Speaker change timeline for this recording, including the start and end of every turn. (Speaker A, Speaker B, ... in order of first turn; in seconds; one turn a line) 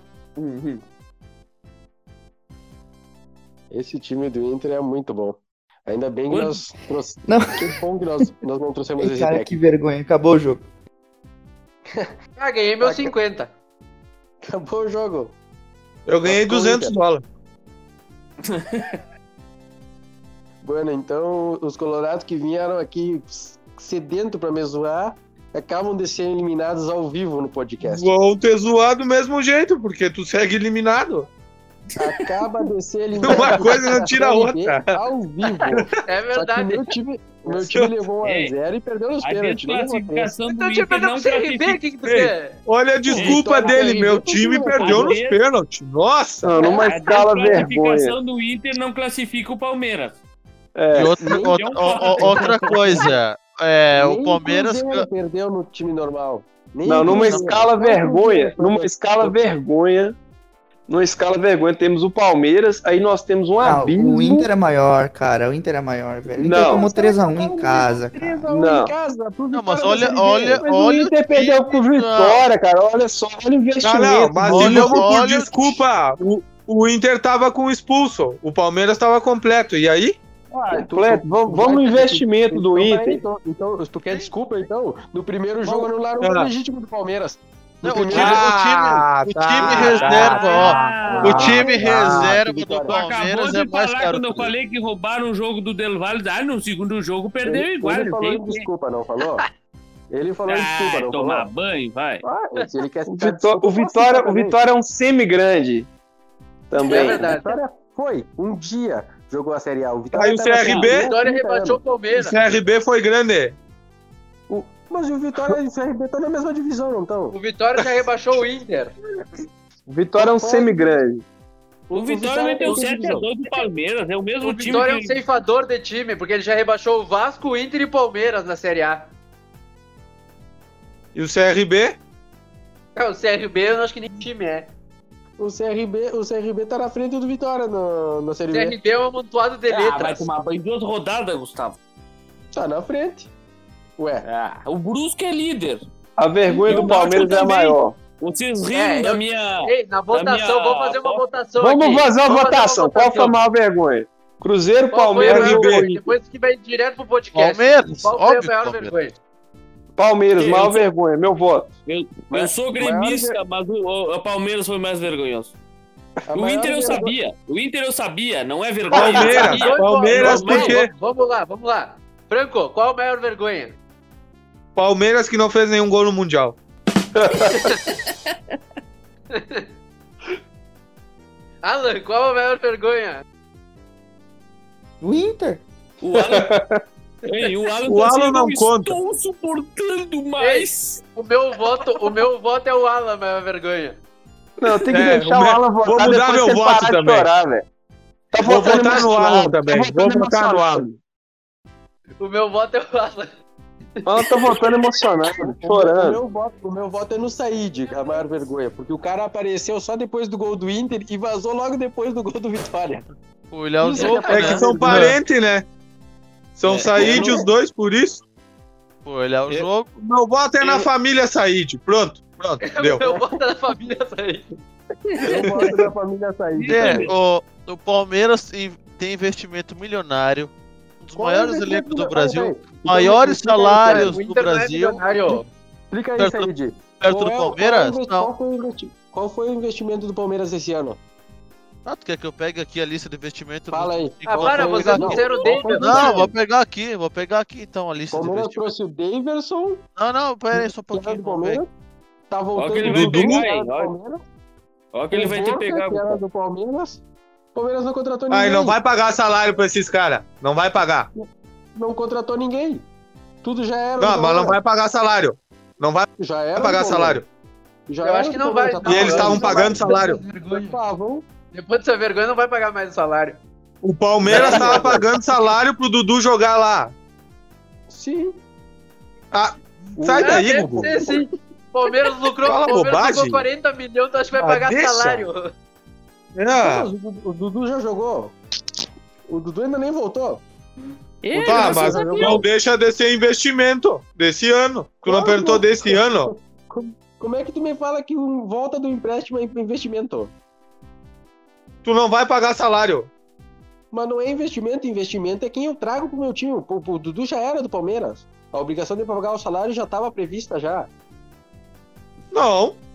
Speaker A: 0.4-0.8
Speaker B: 3.7-9.6
Speaker A: 6.3-6.6
Speaker C: 7.2-7.5
Speaker C: 9.0-10.6
Speaker D: 12.4-13.5
Speaker B: 12.8-13.1
Speaker B: 14.4-15.3
Speaker E: 16.1-17.2
Speaker B: 16.2-16.9
Speaker B: 20.6-28.1
Speaker E: 27.8-31.3
Speaker B: 32.0-40.3
Speaker E: 33.2-35.0
Speaker D: 36.0-36.8
Speaker E: 37.5-38.0
Speaker A: 38.2-38.5
Speaker A: 39.2-41.8
Speaker D: 40.5-42.6
Speaker E: 42.0-46.5
Speaker A: 43.1-43.8
Speaker B: 43.1-45.2
Speaker A: 44.8-45.4
Speaker F: 46.4-48.1
Speaker A: 46.6-50.2
Speaker F: 50.7-51.2
Speaker G: 50.9-55.1
Speaker B: 51.2-53.0
Speaker A: 51.4-53.1
Speaker B: 53.9-59.4
Speaker F: 56.8-60.1
Speaker G: 57.0-57.5
Speaker F: 60.9-64.5
Speaker C: 63.6-68.4
Speaker B: 66.4-70.7
Speaker F: 66.4-66.9
Speaker F: 68.5-68.9
Speaker G: 69.5-72.4
Speaker F: 70.5-75.0
Speaker E: 73.8-80.2
Speaker G: 74.4-75.8
Speaker B: 80.5-88.5
Speaker F: 80.7-83.2
Speaker E: 86.2-86.5
Speaker G: 87.8-94.5
Speaker E: 88.1-92.4
Speaker B: 89.6-92.9
Speaker A: 89.7-91.8
Speaker A: 92.8-98.7
Speaker B: 97.4-99.4
Speaker B: 100.1-101.5
Speaker A: 100.5-102.2
Speaker B: 102.2-104.6
Speaker F: 103.1-105.9
Speaker F: 106.7-107.3
Speaker B: 106.8-111.8
Speaker D: 106.8-107.6
Speaker E: 110.1-111.1
Speaker A: 110.6-111.0
Speaker D: 111.1-112.4
Speaker E: 112.1-113.5
Speaker B: 114.5-117.4
Speaker D: 117.3-118.9
Speaker F: 119.9-121.2
Speaker B: 120.2-121.0
Speaker B: 121.9-123.3
Speaker A: 121.9-125.2
Speaker D: 124.4-129.1
Speaker E: 131.1-132.0
Speaker D: 132.9-134.7
Speaker B: 135.4-138.8
Speaker D: 138.5-140.3
Speaker A: 139.7-141.8
Speaker B: 142.5-143.3
Speaker B: 144.0-144.2
Speaker A: 144.2-145.8
Speaker F: 146.2-148.0
Speaker A: 146.6-151.2
Speaker D: 148.7-153.3
Speaker F: 151.6-156.0
Speaker D: 154.9-159.2
Speaker E: 155.2-155.9
Speaker G: 157.3-158.9
Speaker F: 160.0-161.7
Speaker A: 160.3-160.8
Speaker A: 161.8-165.6
Speaker B: 162.3-163.4
Speaker B: 166.3-167.1
Speaker A: 166.3-170.8
Speaker E: 168.9-170.9
Speaker D: 168.9-173.8
Speaker E: 174.8-176.6
Speaker F: 177.2-177.6
Speaker D: 177.4-177.8
Speaker D: 179.3-179.6
Speaker D: 181.6-183.2
Speaker C: 185.0-185.6
Speaker A: 186.0-186.5
Speaker F: 186.2-186.8
Speaker A: 187.3-191.0
Speaker E: 187.8-189.0
Speaker D: 190.4-194.0
Speaker F: 194.6-197.6
Speaker E: 194.9-197.3
Speaker F: 198.3-201.0
Speaker E: 198.4-200.8
Speaker D: 202.2-203.3
Speaker F: 204.0-206.2
Speaker D: 204.2-204.7
Speaker B: 205.6-213.1
Speaker G: 213.5-215.1
Speaker B: 213.8-215.2
Speaker D: 213.9-214.3
Speaker E: 214.3-215.6
Speaker E: 216.6-218.2
Speaker A: 216.7-217.4
Speaker B: 217.0-217.4
Speaker G: 219.0-219.9
Speaker E: 220.0-223.0
Speaker A: 220.6-220.9
Speaker D: 222.6-224.5
Speaker A: 225.1-225.8
Speaker B: 225.2-227.1
Speaker A: 226.5-227.1
Speaker G: 226.7-235.1
Speaker B: 231.2-234.1
Speaker D: 233.8-235.5
Speaker B: 235.9-241.0
Speaker G: 236.2-238.3
Speaker G: 241.8-248.7
Speaker B: 243.7-246.3
Speaker D: 244.3-246.3
Speaker B: 248.1-249.8
Speaker G: 250.0-251.6
Speaker B: 250.5-251.7
Speaker B: 252.3-254.2
Speaker A: 252.5-253.9
Speaker E: 252.8-253.4
Speaker A: 254.9-256.2
Speaker B: 255.1-257.0
Speaker B: 257.5-258.8
Speaker E: 258.3-261.1
Speaker B: 261.1-262.8
Speaker B: 263.4-264.6
Speaker E: 264.0-267.2
Speaker B: 266.2-267.2
Speaker B: 267.9-271.2
Speaker D: 268.0-270.8
Speaker E: 268.8-270.2
Speaker D: 271.5-273.4
Speaker E: 273.8-276.9
Speaker B: 274.2-275.1
Speaker D: 274.3-274.9
Speaker B: 277.9-278.4
Speaker E: 279.3-281.1
Speaker B: 280.0-281.2
Speaker D: 280.2-285.5
Speaker E: 282.4-283.4
Speaker E: 284.4-285.3
Speaker E: 286.3-286.9
Speaker B: 286.6-288.4
Speaker B: 289.3-290.4
Speaker A: 291.2-292.4
Speaker E: 291.3-296.3
Speaker B: 291.4-292.4
Speaker B: 295.0-300.3
Speaker E: 301.8-303.1
Speaker B: 303.9-310.9
Speaker E: 312.3-312.8